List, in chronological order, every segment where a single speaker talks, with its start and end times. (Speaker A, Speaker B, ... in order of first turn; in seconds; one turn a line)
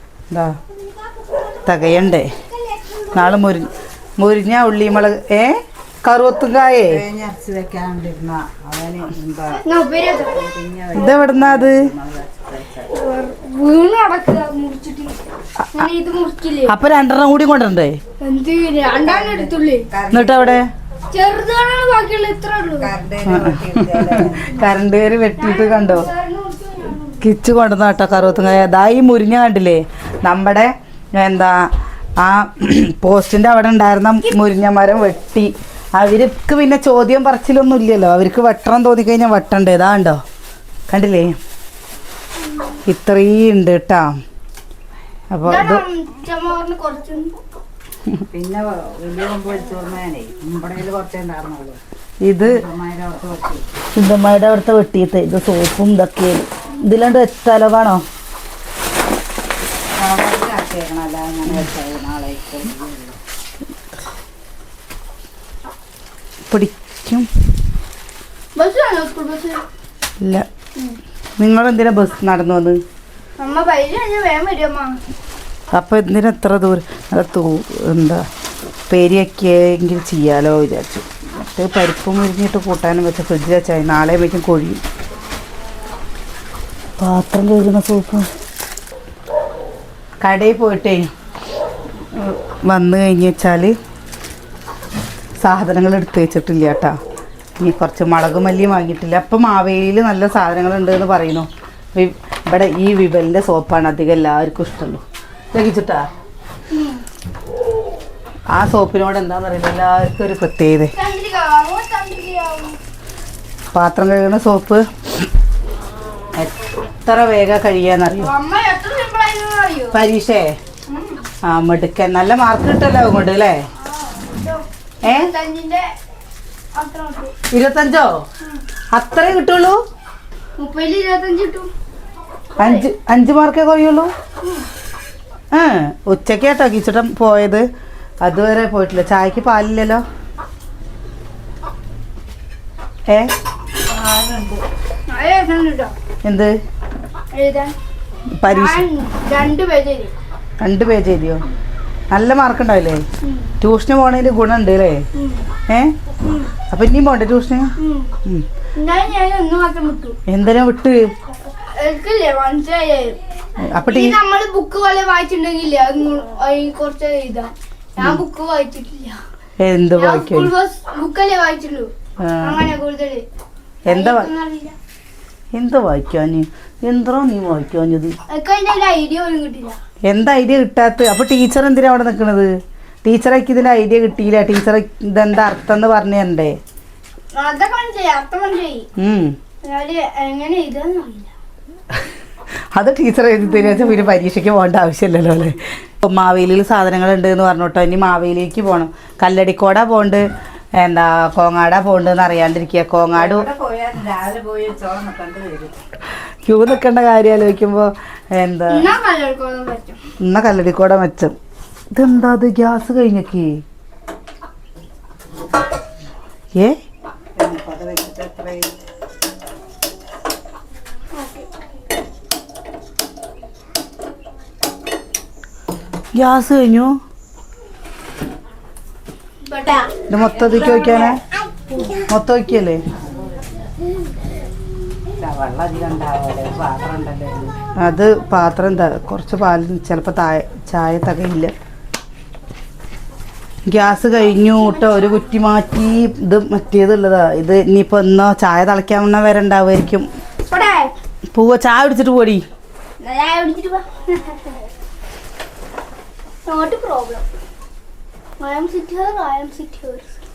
Speaker A: 1.6-2.3
Speaker A: 3.1-7.0
Speaker B: 6.9-12.9
Speaker C: 9.6-10.4
Speaker A: 10.9-11.8
Speaker C: 12.9-15.2
Speaker A: 15.6-15.9
Speaker C: 15.7-16.7
Speaker A: 16.6-18.0
Speaker C: 18.2-19.9
Speaker B: 18.8-20.6
Speaker A: 20.1-20.6
Speaker C: 21.1-22.9
Speaker B: 22.8-24.7
Speaker A: 23.3-26.1
Speaker C: 25.4-27.2
Speaker A: 27.2-31.7
Speaker A: 32.2-40.2
Speaker A: 40.9-41.3
Speaker A: 42.9-44.2
Speaker A: 45.3-45.8
Speaker C: 45.4-47.4
Speaker B: 48.3-51.8
Speaker A: 52.2-52.5
Speaker B: 52.4-53.6
Speaker A: 54.0-58.0
Speaker B: 59.9-63.2
Speaker A: 66.5-67.3
Speaker C: 68.5-69.6
Speaker A: 71.4-72.8
Speaker C: 73.4-75.0
Speaker A: 75.7-78.2
Speaker A: 78.9-84.8
Speaker A: 87.0-88.3
Speaker A: 90.2-91.0
Speaker A: 92.2-93.7
Speaker A: 95.4-96.9
Speaker A: 97.6-105.0
Speaker A: 105.5-106.1
Speaker C: 106.7-107.0
Speaker A: 108.5-110.9
Speaker C: 110.9-112.8
Speaker A: 113.7-114.8
Speaker A: 116.4-118.3
Speaker C: 118.2-120.0
Speaker A: 119.9-120.5
Speaker C: 120.9-121.2
Speaker A: 121.4-123.6
Speaker C: 123.8-125.9
Speaker A: 125.0-125.3
Speaker C: 126.7-127.3
Speaker A: 127.5-128.1
Speaker A: 128.9-129.8
Speaker C: 130.6-131.7
Speaker C: 132.5-132.8
Speaker A: 132.6-134.1
Speaker A: 135.5-137.7
Speaker A: 138.2-140.0
Speaker B: 143.9-144.6
Speaker C: 145.1-145.9
Speaker A: 146.2-146.5
Speaker C: 147.3-147.8
Speaker A: 148.4-148.8
Speaker C: 148.5-150.1
Speaker A: 150.6-151.4
Speaker A: 152.1-153.0
Speaker C: 153.2-153.5
Speaker A: 153.6-155.0
Speaker C: 155.2-155.4
Speaker C: 156.2-156.5
Speaker A: 156.7-157.7
Speaker C: 157.8-158.1
Speaker C: 158.8-160.2
Speaker A: 160.3-161.0
Speaker C: 161.7-163.2
Speaker A: 163.7-164.2
Speaker C: 163.8-169.2
Speaker A: 169.6-170.5
Speaker C: 169.9-171.9
Speaker A: 172.2-172.6
Speaker C: 172.4-173.2
Speaker A: 173.9-174.3
Speaker C: 173.9-174.8
Speaker A: 175.5-178.2
Speaker C: 178.3-179.8
Speaker A: 180.1-182.5
Speaker A: 183.0-186.6
Speaker C: 187.3-188.8
Speaker A: 189.0-189.3
Speaker C: 189.6-191.3
Speaker A: 192.7-200.3
Speaker A: 200.8-203.5
Speaker B: 203.1-205.7
Speaker A: 206.4-208.9
Speaker C: 208.7-210.0
Speaker A: 210.2-211.3
Speaker A: 211.9-213.5
Speaker B: 217.3-218.7
Speaker C: 221.1-221.4
Speaker A: 226.1-226.9
Speaker C: 229.4-229.9
Speaker A: 230.1-231.2
Speaker B: 230.7-231.1
Speaker A: 232.1-232.8
Speaker B: 235.2-237.6
Speaker A: 237.8-241.5
Speaker A: 243.7-250.1
Speaker C: 250.5-250.9
Speaker A: 251.3-252.4
Speaker C: 253.0-254.5
Speaker C: 256.4-257.2
Speaker C: 258.4-260.2